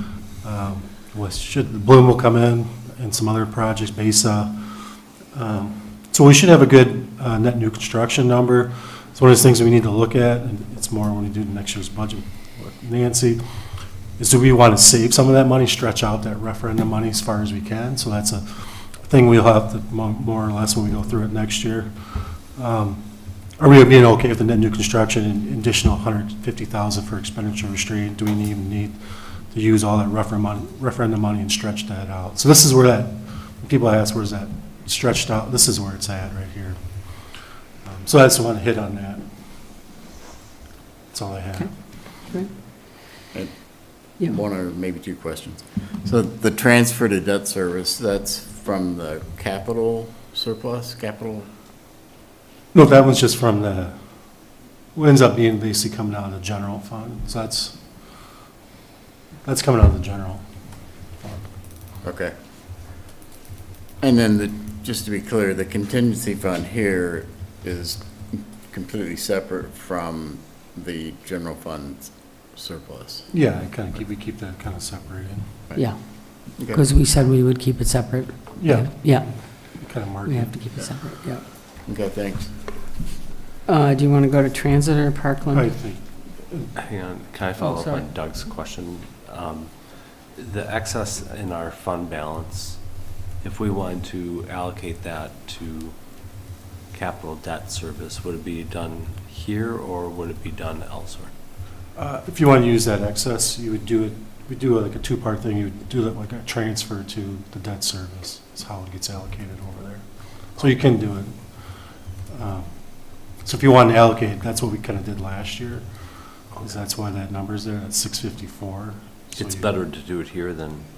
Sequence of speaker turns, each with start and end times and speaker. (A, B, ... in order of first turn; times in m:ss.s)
0:00.4-0:13.4 A
0:14.2-0:21.9 A
0:22.6-0:23.0 A
0:23.6-0:29.0 A
0:29.5-0:37.2 A
0:37.8-0:39.2 A
0:41.1-0:41.7 A
0:43.3-0:51.5 B
0:52.7-0:54.0 A
0:55.0-0:57.8 A
0:59.4-1:00.4 A
1:01.2-1:01.4 A
1:02.0-1:02.3 B
1:04.0-1:13.3 B
1:13.3-1:15.5 A
1:15.8-1:21.4 C
1:16.6-1:16.8 B
1:18.6-1:20.6 A
1:21.8-1:22.5 B
1:23.7-1:25.8 C
1:25.5-1:26.7 A
1:26.8-1:32.8 D
1:27.6-1:28.1 C
1:33.4-1:35.9 D
1:36.9-1:41.3 D
1:42.0-1:51.4 A
1:52.3-1:55.8 A
1:56.6-1:59.7 A
1:59.3-2:00.8 D